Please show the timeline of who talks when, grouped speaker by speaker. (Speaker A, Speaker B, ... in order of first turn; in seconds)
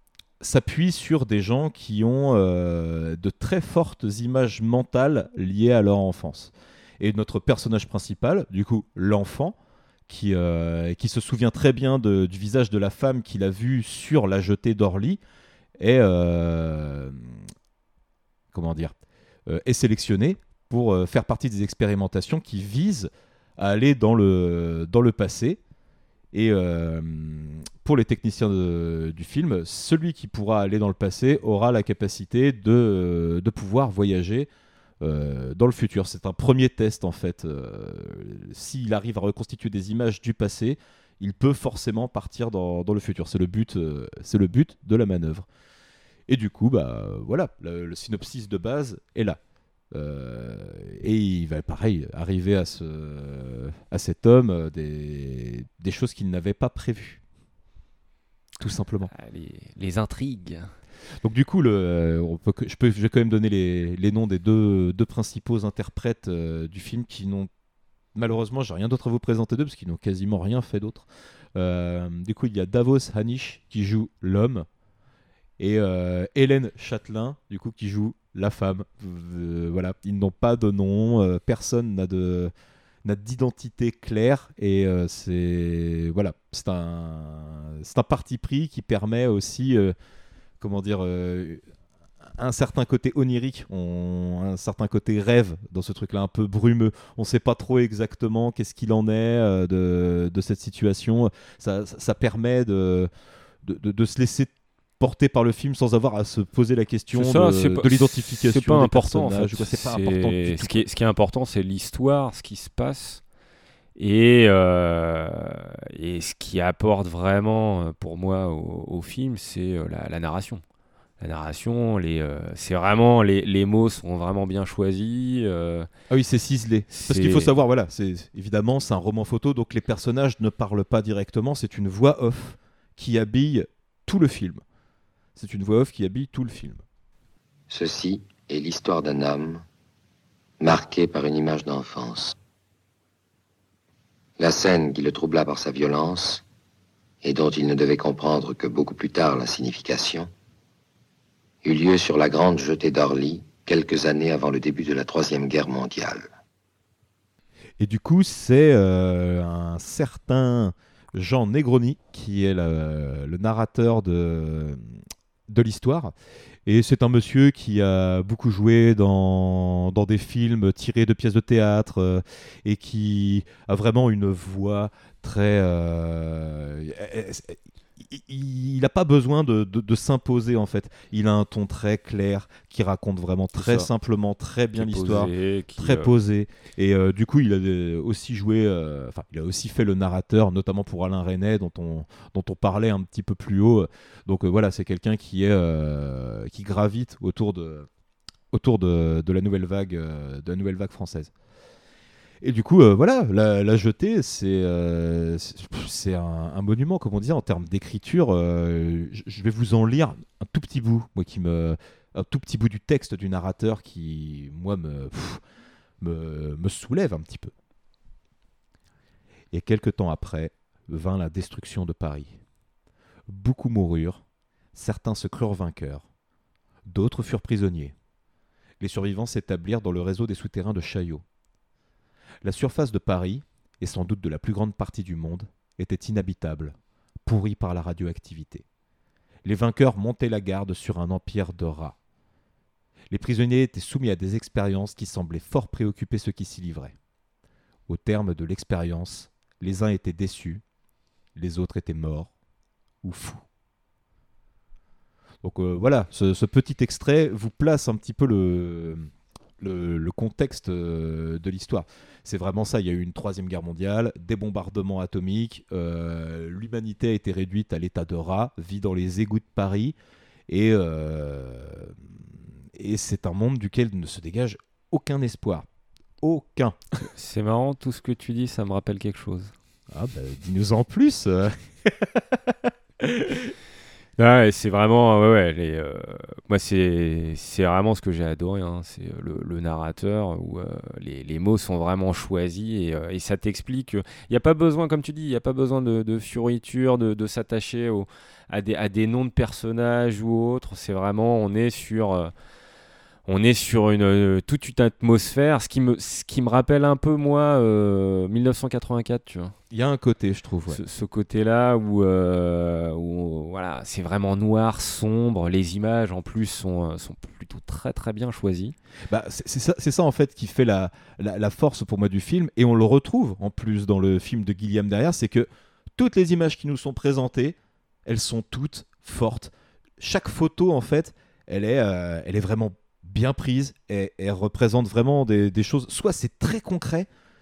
Speaker A: 0.4-9.6, 10.1-15.2, 15.8-17.4, 18.5-18.9, 19.5-25.6, 26.3-34.5, 35.0-45.5, 46.3-49.4, 49.9-57.2, 58.6-59.1, 61.2-67.5, 68.2-74.7, 75.6-82.5, 83.0-90.0, 90.6-91.6, 92.3-103.1, 103.6-110.8, 126.1-134.6, 135.3-136.8, 157.8-165.0, 165.5-166.1, 166.7-197.9, 198.5-201.3, 202.4-215.4, 216.0-217.5, 219.5-222.4, 223.3-224.2, 224.7-226.1, 226.9-227.9, 228.8-231.2, 232.4-238.7, 239.4-242.0, 243.1-246.9, 247.9-250.6, 251.4-252.3, 253.0-253.4, 255.4-270.0, 270.5-272.2, 272.7-275.7, 276.2-276.8, 279.9-283.5, 309.7-310.8, 319.1-337.1
Speaker B: 59.1-60.7, 107.1-113.2, 114.0-120.6, 121.2-125.9, 126.9-127.5, 183.6-183.9, 184.8-186.1, 277.0-279.5, 284.2-302.3, 303.3-309.6, 310.7-318.8
Speaker C: 137.7-139.6, 140.6-142.3, 144.4-146.4, 147.2-150.3, 151.6-156.3